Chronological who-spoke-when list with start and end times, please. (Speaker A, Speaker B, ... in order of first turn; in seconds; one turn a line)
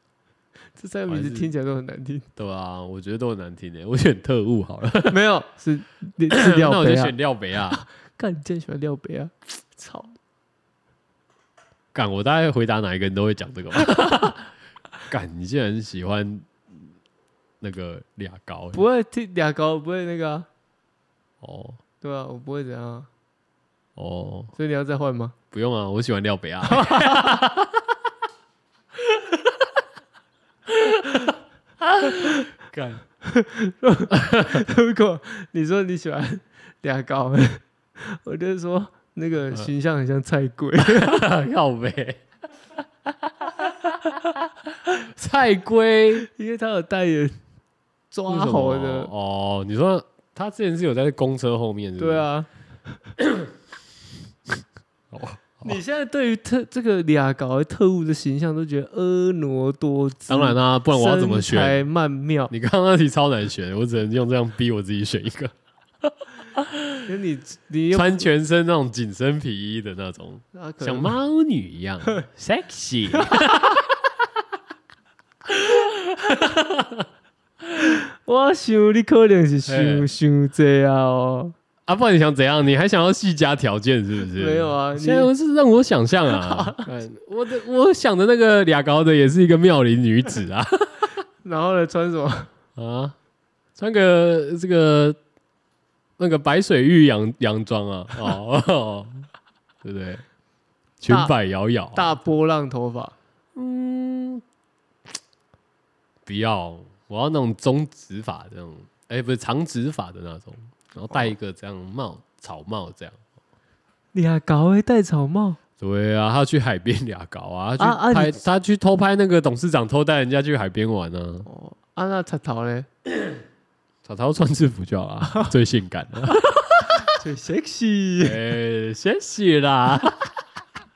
Speaker A: 0.8-2.3
Speaker B: 1.1-1.5
Speaker B: 2.4-5.2
Speaker A: 5.1-7.1
Speaker B: 6.3-7.8
Speaker A: 7.7-10.1
Speaker B: 11.9-14.5
Speaker B: 15.1-16.9
Speaker B: 17.6-18.8
Speaker A: 18.7-20.5
Speaker B: 21.4-21.8
Speaker A: 22.0-23.1
Speaker B: 24.0-24.5
Speaker A: 24.6-25.3
Speaker B: 25.5-27.9
Speaker A: 26.7-27.3
Speaker B: 30.7-33.0
Speaker A: 33.2-41.2
Speaker B: 34.1-34.6
Speaker B: 40.8-42.2
Speaker B: 43.4-46.2
Speaker A: 46.2-47.4
Speaker A: 48.1-49.1
Speaker B: 48.3-52.2
Speaker A: 52.0-52.5
Speaker B: 53.2-53.5
Speaker B: 54.5-55.8
Speaker A: 55.6-62.5
Speaker B: 60.3-61.8
Speaker B: 62.5-67.0
Speaker A: 67.0-68.3
Speaker B: 67.9-74.0
Speaker A: 70.5-71.2
Speaker B: 75.5-77.1
Speaker A: 77.8-81.5
Speaker B: 79.7-80.1
Speaker B: 81.9-91.1
Speaker A: 84.3-85.3
Speaker A: 86.3-86.9
Speaker A: 91.4-92.5
Speaker B: 92.8-93.2
Speaker B: 93.8-95.2
Speaker B: 96.2-99.3
Speaker B: 99.8-100.2
Speaker B: 101.0-102.1
Speaker A: 101.1-101.3
Speaker A: 101.9-103.1
Speaker B: 103.5-104.4
Speaker B: 106.2-113.2
Speaker A: 114.1-115.6
Speaker B: 115.8-121.5
Speaker A: 117.8-118.4
Speaker A: 121.4-122.9
Speaker B: 124.0-127.1
Speaker A: 127.1-128.4
Speaker B: 128.2-130.3